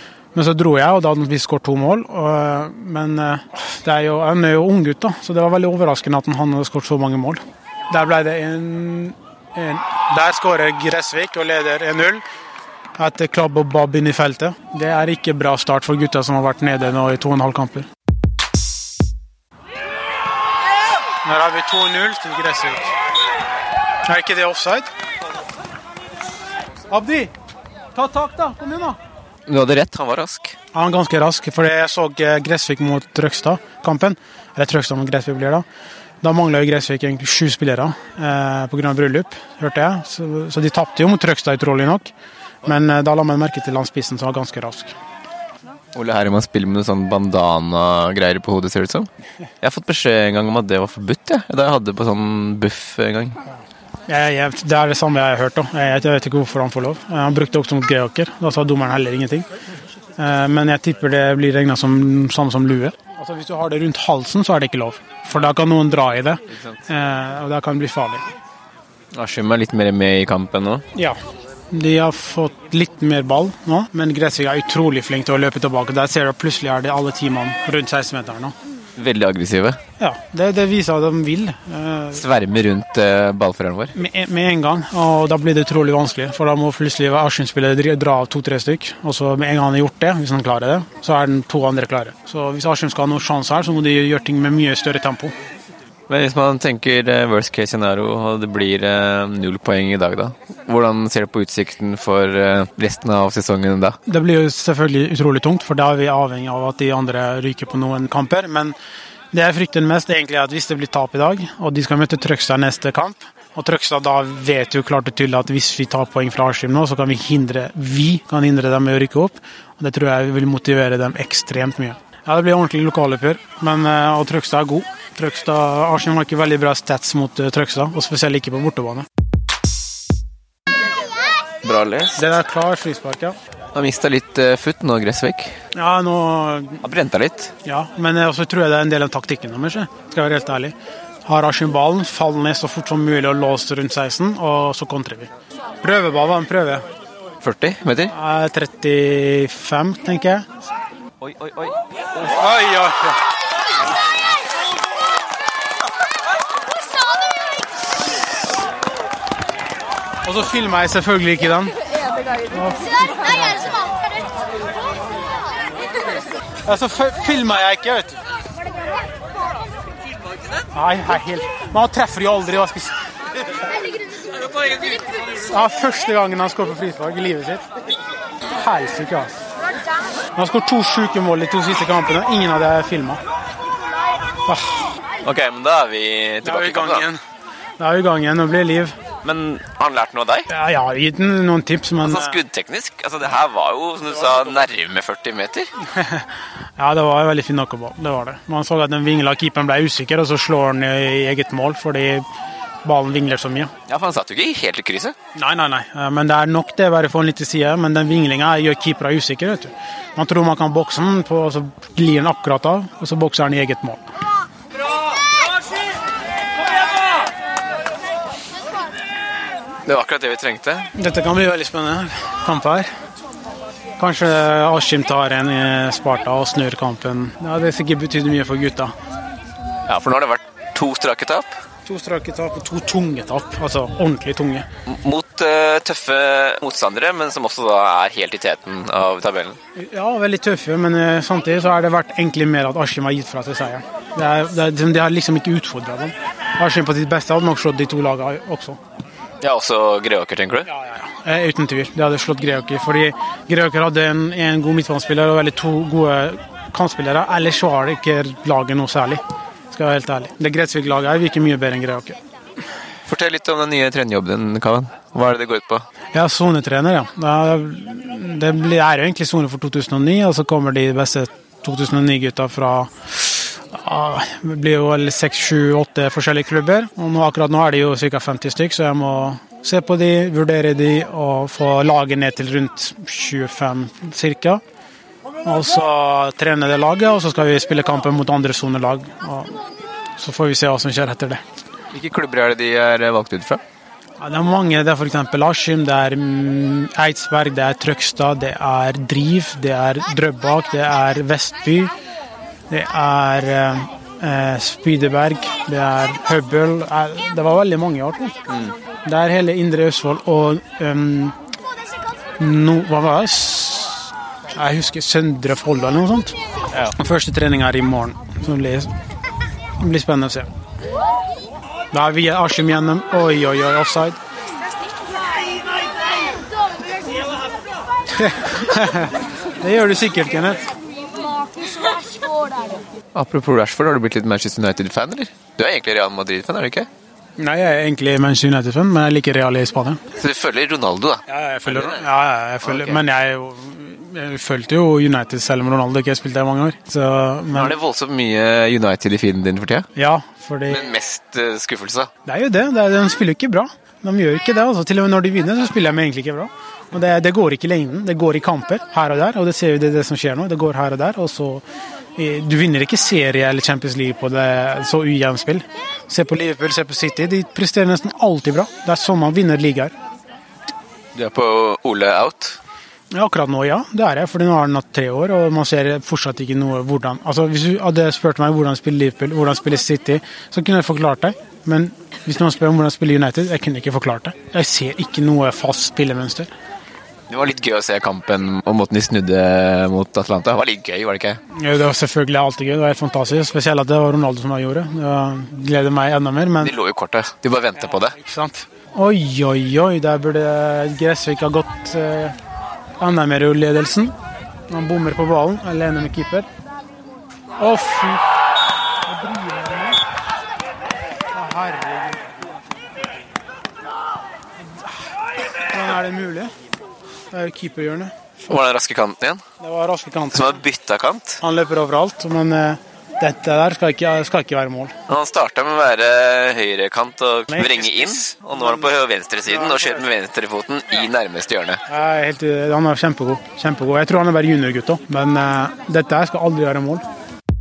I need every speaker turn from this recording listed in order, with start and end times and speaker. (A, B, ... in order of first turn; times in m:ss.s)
0:00.3-0:12.2 A
0:13.0-0:17.9 A
0:21.2-0:22.9 A
0:24.1-0:24.9 A
0:26.9-0:27.3 A
0:28.0-0:29.0 A
0:29.5-0:30.6 B
0:30.7-0:35.6 A
0:36.2-0:42.1 A
0:42.6-0:45.0 A
0:46.0-0:49.1 B
0:49.6-0:53.4 B
0:54.1-0:59.5 A
1:00.2-1:08.2 A
1:09.2-1:10.8 B
1:11.7-1:18.5 A
1:19.0-1:19.8 B
1:20.0-1:22.2 A
1:22.1-1:23.9 B
1:24.0-1:35.3 A
1:36.1-1:44.0 B
1:44.1-1:48.8 A
1:49.3-2:09.1 A
2:11.6-2:12.2 B
2:12.2-2:13.4 A
2:13.8-2:15.5 B
2:15.8-2:16.8 A
2:16.8-2:17.5 B
2:17.6-2:25.3 A
2:25.8-2:26.8 A
2:27.4-2:28.1 B
2:28.1-2:30.4 A
2:31.2-2:31.8 B
2:32.3-2:33.2 A
2:40.2-2:41.7 A
2:42.5-2:43.7 A
2:46.6-2:48.2 A
2:50.7-2:53.0 A
2:55.4-2:57.6 A
2:58.5-2:59.3 A
3:00.4-3:03.2 A
3:04.5-3:05.0 A
3:05.2-3:07.1 B
3:06.4-3:07.2 A
3:07.8-3:09.0 A
3:09.2-3:10.5 B
3:10.5-3:12.4 A
3:12.0-3:15.7 B
3:15.9-3:22.2 A
3:22.8-3:23.7 A
3:23.9-3:25.2 B
3:25.4-3:34.0 A
3:39.9-3:40.9 B
3:41.0-3:42.9 A
3:44.0-3:48.9 A
3:49.9-3:51.5 B
3:51.8-3:54.7 A
3:54.9-3:59.6 B
3:59.8-4:08.8 A
4:09.4-4:10.7 B
4:10.7-4:22.2 A
4:23.1-4:25.8 B
4:26.1-4:44.6 A
4:45.4-4:49.5 A
4:50.2-4:51.4 A
4:51.9-4:53.6 B
4:54.2-5:01.9 A
5:02.7-5:08.4 A
5:09.0-5:11.4 A
5:12.4-5:16.4 A
5:17.0-5:18.9 A
5:19.8-5:20.5 A
5:21.9-5:24.2 A
5:28.2-5:30.6 A
5:33.1-5:36.9 B
5:37.4-5:40.0 A
5:40.2-5:42.0 B
5:41.3-5:47.7 A
5:42.6-5:43.0 B
5:47.5-5:49.9 B
5:50.0-5:50.9 A
5:50.7-5:52.1 B
5:52.3-6:01.6 A
6:02.2-6:09.9 A
6:11.2-6:12.6 B
6:13.1-6:26.5 A
6:27.3-6:31.4 B
6:31.5-6:36.8 A
6:36.6-6:38.2 B
6:38.1-6:42.4 A
6:43.0-6:44.2 A
6:44.7-6:46.5 A
6:47.6-6:48.3 A
6:49.1-6:50.0 A
6:51.3-6:52.4 A
6:55.6-6:56.5 A
6:57.3-6:58.6 A
6:58.5-6:59.4 B
6:59.6-7:00.6 A
7:00.3-7:01.4 B
7:01.4-7:04.9 A
7:05.1-7:11.8 B
7:07.5-7:08.9 A
7:09.5-7:10.0 A
7:11.9-7:17.0 A